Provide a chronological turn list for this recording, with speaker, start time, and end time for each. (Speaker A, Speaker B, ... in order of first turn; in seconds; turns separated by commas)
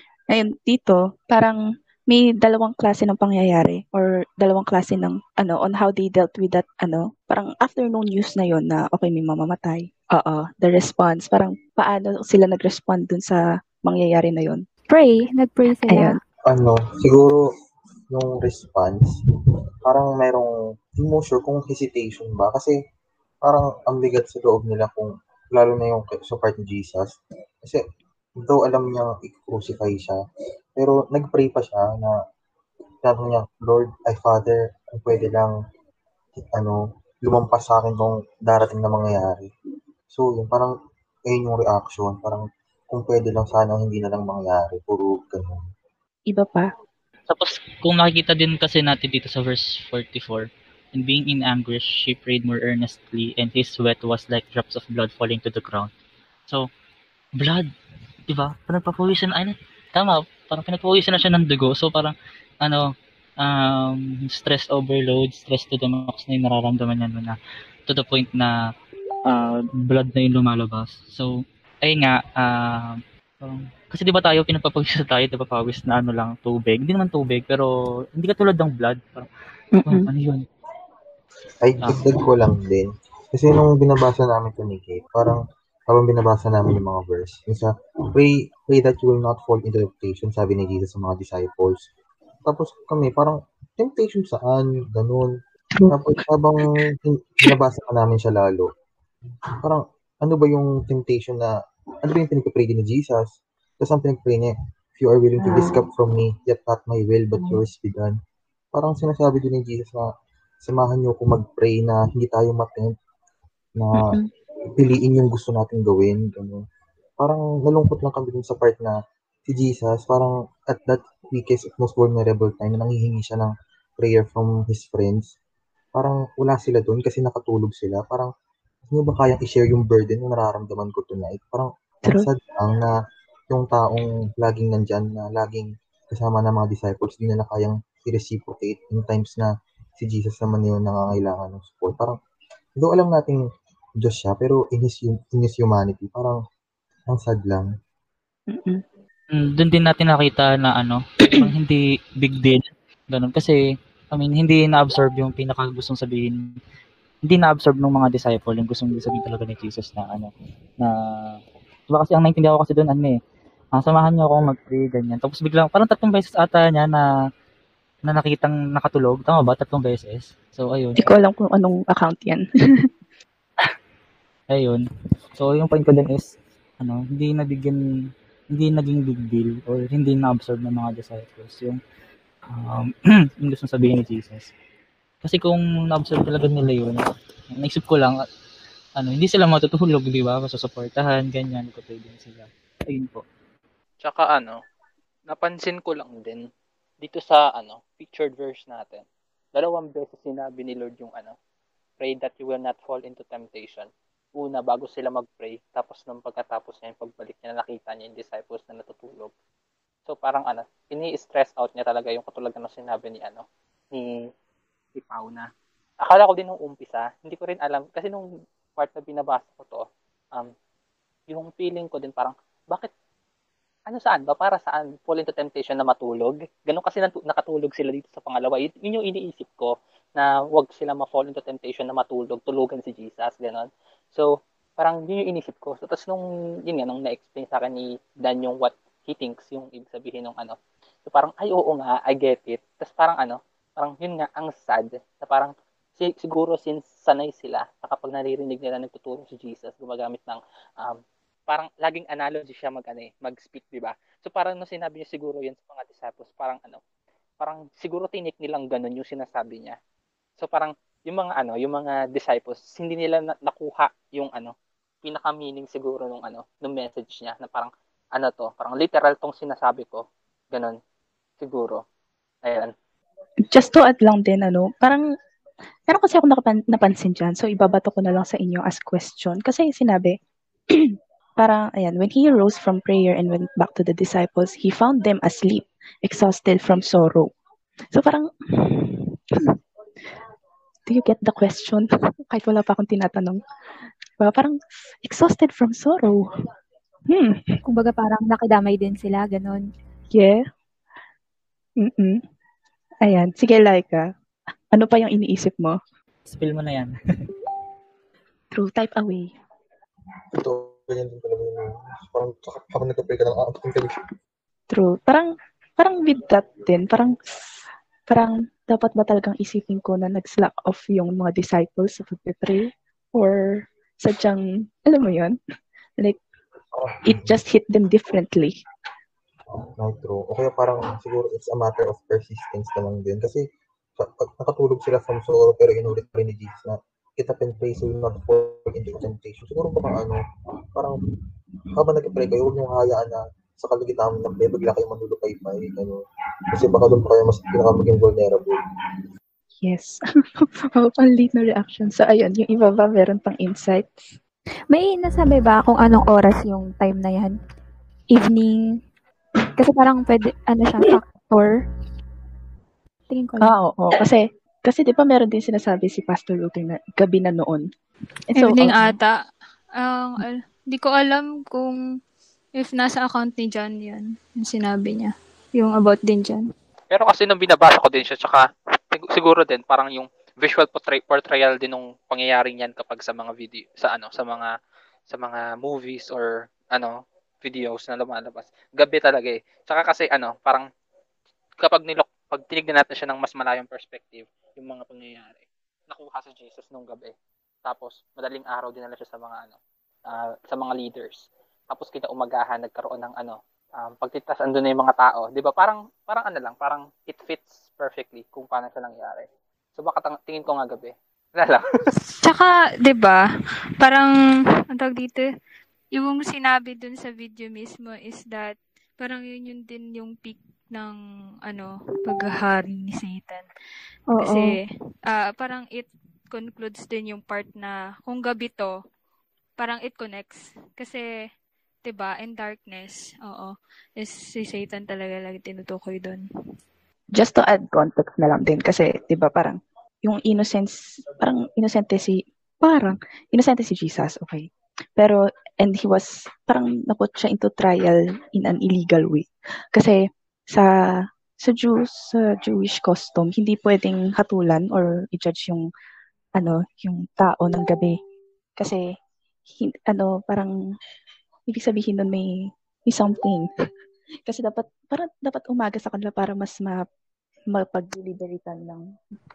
Speaker A: 0.3-14.6, Speaker B: 14.9-16.2, Speaker A: 15.8-16.2, Speaker C: 16.5-17.4, Speaker C: 18.1-19.2, Speaker C: 19.9-22.8, Speaker C: 23.4-27.8, Speaker C: 28.4-30.2, Speaker C: 30.8-32.1, Speaker C: 33.0-35.5, Speaker C: 36.4-39.5, Speaker C: 40.1-40.7, Speaker C: 41.3-45.6, Speaker A: 46.3-46.7, Speaker D: 47.3-55.9, Speaker D: 57.4-57.7, Speaker D: 58.3-68.5, Speaker D: 69.3-79.3, Speaker A: 79.8-80.1, Speaker D: 79.8-80.5, Speaker C: 81.6-91.9, Speaker C: 92.5-95.3, Speaker C: 95.9-98.7, Speaker C: 99.6-101.5, Speaker C: 102.0-103.3, Speaker C: 103.8-108.2, Speaker C: 108.7-110.1, Speaker C: 110.6-112.9, Speaker C: 113.8-114.1, Speaker C: 114.8-116.6, Speaker C: 117.2-119.0, Speaker C: 119.5-125.3, Speaker C: 126.0-128.3, Speaker C: 128.9-132.9, Speaker C: 133.5-142.2, Speaker C: 142.8-143.4, Speaker C: 144.0-146.4, Speaker C: 147.1-147.7, Speaker A: 148.5-148.8, Speaker D: 149.3-153.6, Speaker D: 154.1-156.4, Speaker D: 157.3-161.4, Speaker D: 161.9-163.2, Speaker D: 163.8-167.1, Speaker D: 168.1-171.1, Speaker A: 171.0-172.9, Speaker D: 174.5-174.8, Speaker D: 175.4-177.8, Speaker D: 178.5-181.8, Speaker D: 182.5-184.5, Speaker D: 185.2-188.2, Speaker D: 189.0-193.2, Speaker E: 194.0-194.6, Speaker E: 195.3-196.5, Speaker E: 197.0-199.0, Speaker E: 199.6-201.4, Speaker E: 202.0-209.3, Speaker E: 210.1-214.3, Speaker E: 215.0-215.5, Speaker E: 216.0-220.5, Speaker E: 221.3-222.9, Speaker E: 223.9-256.8, Speaker E: 257.4-259.8, Speaker E: 260.4-270.8, Speaker E: 271.4-271.8, Speaker E: 272.4-272.7, Speaker A: 273.5-275.0, Speaker A: 275.9-280.2, Speaker A: 280.7-287.3, Speaker A: 287.9-289.5, Speaker A: 290.9-293.4, Speaker A: 294.2-296.2, Speaker A: 297.1-297.6, Speaker B: 297.6-299.7, Speaker A: 300.1-300.4, Speaker A: 301.8-302.2, Speaker A: 303.0-304.1, Speaker A: 304.7-305.8, Speaker D: 306.3-306.9, Speaker A: 308.5-309.3, Speaker C: 310.3-314.0, Speaker A: 314.7-325.4, Speaker C: 326.7-327.4, Speaker A: 327.1-328.6, Speaker C: 329.6-333.4, Speaker C: 334.0-340.2, Speaker C: 341.8-346.0, Speaker C: 346.5-348.6, Speaker A: 349.6-354.2, Speaker B: 354.7-357.4, Speaker B: 358.1-358.8, Speaker B: 359.6-361.6, Speaker B: 363.1-363.6, Speaker A: 363.4-367.6, Speaker F: 368.3-369.2, Speaker A: 368.3-368.9, Speaker F: 369.8-371.8, Speaker F: 372.6-376.4, Speaker E: 376.9-384.5, Speaker E: 385.1-390.7, Speaker E: 391.6-397.1, Speaker E: 397.6-411.6, Speaker F: 412.2-413.2, Speaker F: 413.8-414.1, Speaker F: 414.7-415.3, Speaker F: 415.9-423.5, Speaker B: 424.1-424.6, Speaker F: 424.2-428.8, Speaker F: 429.6-431.3, Speaker F: 431.9-436.2, Speaker A: 437.1-450.7, Speaker A: 451.4-455.6, Speaker A: 456.4-458.0, Speaker A: 459.5-460.5, Speaker A: 461.5-463.5, Speaker A: 464.3-466.9, Speaker A: 467.5-468.9